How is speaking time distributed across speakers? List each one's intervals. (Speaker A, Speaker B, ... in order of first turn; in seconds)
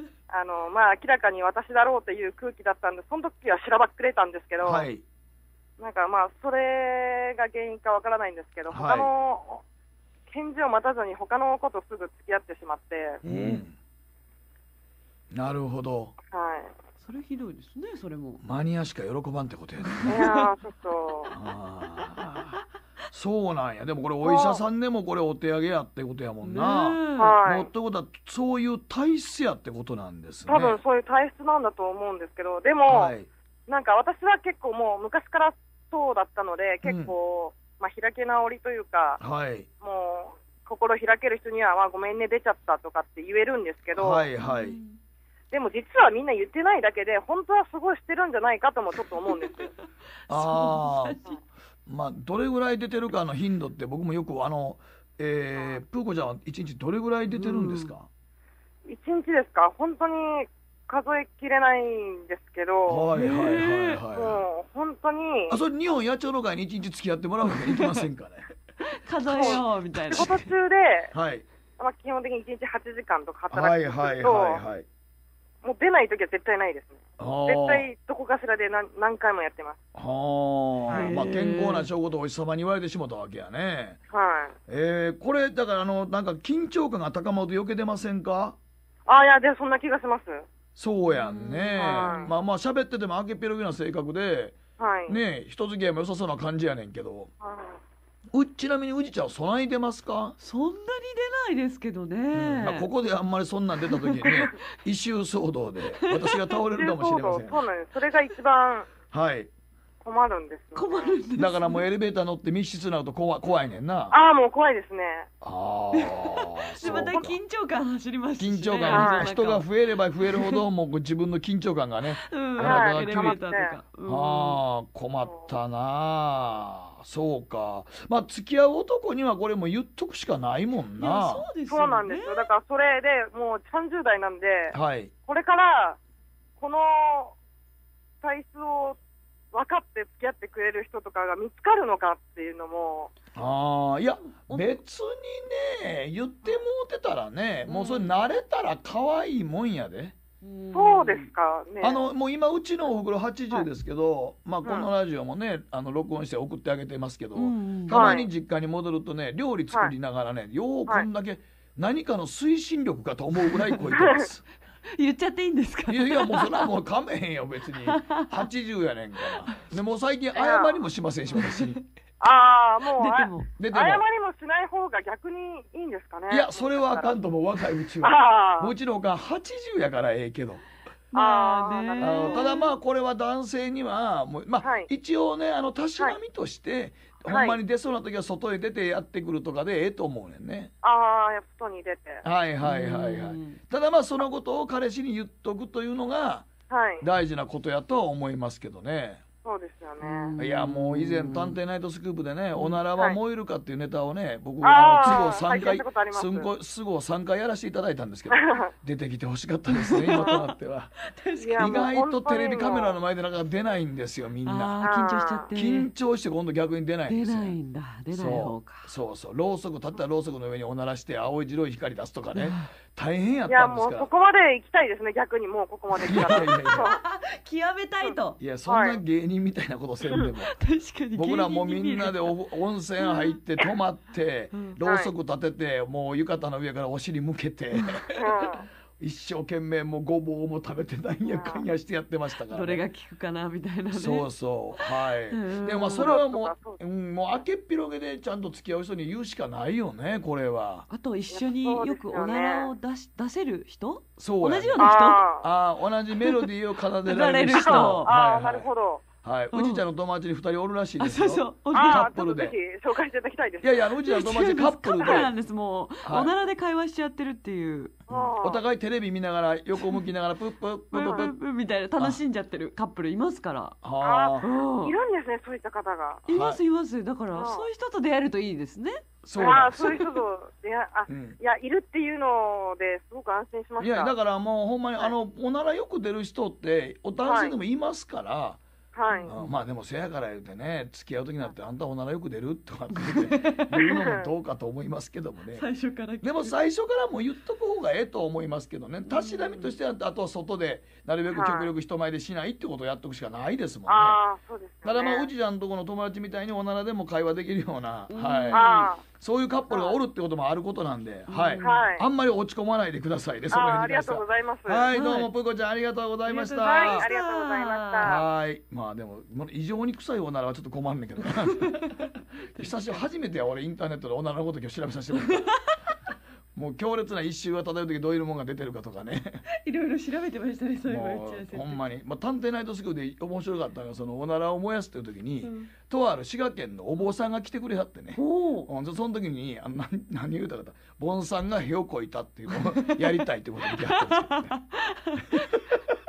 Speaker A: 0.3-4.9, 5.8-9.6, 10.3-13.2, 16.3-16.7, 20.1-21.4, 24.2-24.6, 27.2-27.7, 30.5-33.1, 33.7-39.2, 39.8-44.3, 45.5-49.7, 58.9-63.1, 64.1-65.6, 69.3-71.1, 71.8-74.6, 75.6-79.8, 80.9-81.2, 84.1-84.6, 89.1-90.5, 91.8-92.3, 94.8-95.2, 97.4-97.8, 106.7-108.9, 110.0-111.2, 114.1-115.3, 118.8-119.3, 122.6-123.8, 125.2-125.5, 131.7-136.0, 136.6-137.3, 138.2-139.0, 139.5-143.1, 150.7-152.1, 154.6-154.9, 157.9-158.3, 163.9-164.3, 170.3-170.9, 172.2-177.2, 178.0-178.7, 181.1-182.5, 184.6-184.9, 187.3-187.6, 190.8-192.2, 196.7-197.1, 199.4-200.3, 204.6-206.5, 208.3-208.7, 210.1-210.4, 211.4-213.0, 214.8-215.5, 223.5-227.0, 228.0-229.0, 234.8-235.1, 238.2-238.7, 241.2-241.7, 246.0-246.8, 251.3-252.7, 254.8-255.5, 257.6-259.0, 261.7-263.7, 265.0-265.3, 268.1-268.6, 271.0-271.3, 274.0-276.2, 277.3-277.7, 279.4-284.1, 287.2-287.6, 288.9-289.3, 293.7-294.3, 301.3-301.7, 303.9-305.3, 308.5-309.0, 309.7-310.0, 311.6-312.1, 313.5-314.9, 316.6-318.3
Speaker B: 4.6-5.0, 8.7-9.1, 13.3-13.8, 15.3-16.1, 18.4-20.2, 21.3-22.6, 23.1-30.8, 32.9-33.3, 36.8-37.1, 39.2-39.7, 44.0-44.8, 50.3-51.2, 51.9-58.1, 62.9-64.4, 65.5-68.5, 69.4-70.3, 71.1-71.5, 73.5-74.9, 77.2-77.9, 80.0-84.0, 84.7-88.6, 90.8-97.3, 98.3-100.4, 102.3-107.6, 109.1-109.5, 111.4-114.1, 115.4-117.4, 118.4-123.4, 124.0-131.5, 134.7-135.1, 143.3-150.2, 151.8-164.4, 165.9-171.8, 173.6-174.1, 176.3-180.6, 182.0-190.7, 192.2-196.5, 197.0-199.2, 200.4-210.9, 211.6-214.8, 215.5-217.6, 218.1-224.1, 226.1-226.9, 228.4-230.6, 231.1-238.4, 239.0-242.8, 243.9-250.9, 254.2-258.7, 259.2-262.6, 263.6-265.3, 266.1-266.3, 268.1-271.4, 273.8-274.5, 276.3-276.6, 279.2-280.1, 281.1-281.4, 283.8-288.6, 289.3-295.7, 296.2-304.2, 304.8-317.1, 318.0-321.9, 322.6-325.5, 326.6-329.4, 330.9-344.5
Speaker C: 13.2-13.6, 17.0-18.4, 19.8-20.5, 26.4-27.4, 44.4-45.0, 50.3-51.4, 57.3-58.0, 63.1-64.1, 67.5-68.0, 68.8-70.5, 80.9-81.9, 91.1-92.3, 100.4-102.9, 103.9-104.6, 106.0-106.6, 110.8-111.8, 115.9-119.7, 120.2-120.7, 122.0-124.6, 131.0-132.5, 144.3-144.8, 147.7-148.2, 150.4-151.3, 157.3-158.2, 163.6-163.9, 164.9-166.8, 167.8-168.5, 171.3-171.8, 172.9-173.5, 181.1-182.8, 192.6-193.6, 200.0-201.6, 202.6-202.8, 209.7-211.9, 214.4-215.9, 217.1-218.9, 222.3-222.7, 226.1-228.4, 230.2-232.4, 233.0-233.7, 237.8-238.0, 242.4-244.3, 244.8-246.2, 250.9-255.3, 257.0-258.1, 259.5-259.8, 261.0-262.1, 264.0-268.0, 269.8-270.0, 270.9-273.8, 274.4-274.9, 276.3-280.1, 289.1-289.6, 293.0-294.0, 295.5-296.6, 299.0-299.8, 308.1-308.9, 311.3-311.8, 314.9-315.3, 316.2-318.2, 321.2-323.1, 325.1-325.6, 329.6-331.8, 335.4-335.7, 338.2-338.7, 342.5-345.7